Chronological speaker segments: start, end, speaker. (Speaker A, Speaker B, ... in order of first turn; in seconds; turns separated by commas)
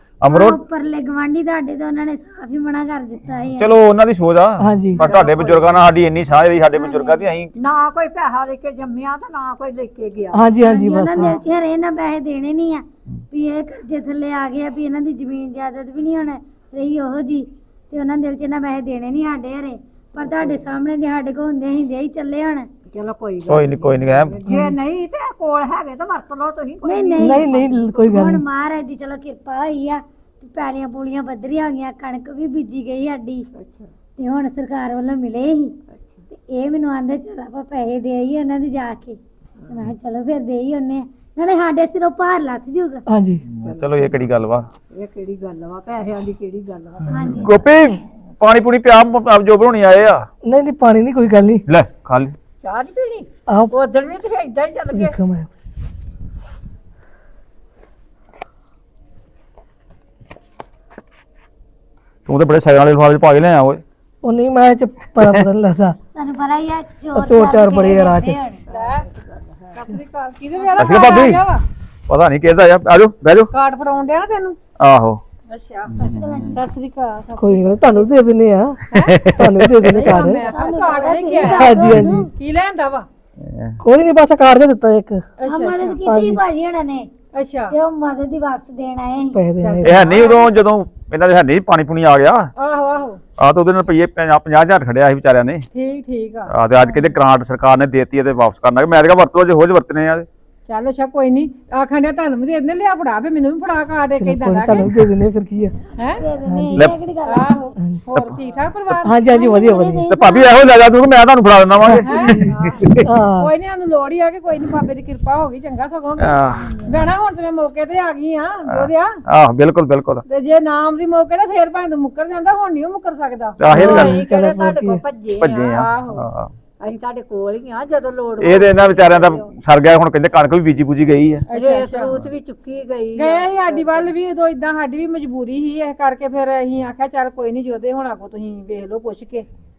Speaker A: 0.2-0.6, Speaker B: 0.3-3.7, Speaker A: 3.5-7.5, Speaker C: 4.6-5.0, Speaker D: 5.0-5.6, Speaker B: 6.7-7.2, Speaker D: 7.6-10.4, Speaker C: 10.3-11.4, Speaker B: 10.6-22.7, Speaker D: 20.2-20.6, Speaker D: 22.9-28.1, Speaker A: 23.5-24.4, Speaker C: 24.4-24.8, Speaker B: 26.8-33.5, Speaker C: 27.2-28.4, Speaker D: 33.5-33.9, Speaker B: 34.2-35.8, Speaker D: 35.9-36.2, Speaker B: 36.3-43.0, Speaker C: 43.1-43.4, Speaker A: 43.5-44.7, Speaker D: 43.6-44.2, Speaker D: 44.9-47.4, Speaker B: 47.1-47.6, Speaker A: 47.4-50.2, Speaker C: 50.4-51.6, Speaker A: 51.7-52.3, Speaker D: 52.6-55.2, Speaker C: 53.5-53.7, Speaker C: 54.9-55.5, Speaker A: 62.2-63.8, Speaker C: 64.2-66.0, Speaker B: 66.1-68.6, Speaker C: 67.1-68.4, Speaker D: 68.7-69.8, Speaker E: 68.7-69.0, Speaker E: 69.7-71.6, Speaker D: 70.6-71.0, Speaker A: 70.8-71.5, Speaker A: 72.1-73.5, Speaker E: 73.5-74.6, Speaker A: 74.8-75.2, Speaker E: 75.5-76.0, Speaker A: 75.9-76.6, Speaker B: 75.9-76.6, Speaker E: 76.5-78.1, Speaker C: 77.3-80.5, Speaker E: 78.9-83.1, Speaker A: 79.0-79.9, Speaker B: 80.5-82.3, Speaker C: 81.5-82.3, Speaker A: 83.4-83.8, Speaker C: 83.8-85.2, Speaker E: 85.4-86.0, Speaker B: 85.5-87.1, Speaker C: 86.0-86.4, Speaker E: 87.3-87.7, Speaker B: 87.7-89.4, Speaker C: 89.3-90.0, Speaker E: 89.6-90.5, Speaker A: 89.8-92.5, Speaker E: 92.6-93.2, Speaker A: 93.4-95.7, Speaker E: 95.7-96.5, Speaker A: 96.5-100.3, Speaker E: 100.7-105.1, Speaker C: 104.2-105.8, Speaker E: 106.0-106.3, Speaker B: 106.1-107.6, Speaker C: 106.5-106.9, Speaker E: 107.2-109.2, Speaker C: 107.8-108.0, Speaker C: 109.0-110.1, Speaker B: 109.2-110.6, Speaker A: 110.1-113.1, Speaker E: 112.0-119.2, Speaker D: 112.5-112.8, Speaker C: 113.0-113.5, Speaker A: 116.2-116.6, Speaker B: 116.5-117.1, Speaker A: 118.7-120.2, Speaker E: 120.3-123.6, Speaker A: 123.6-124.2, Speaker C: 123.7-125.0, Speaker D: 123.7-125.9, Speaker A: 125.4-126.5, Speaker E: 125.7-126.2, Speaker D: 126.8-129.5, Speaker A: 128.4-131.4, Speaker E: 131.5-132.2, Speaker D: 131.5-134.1, Speaker E: 133.2-139.5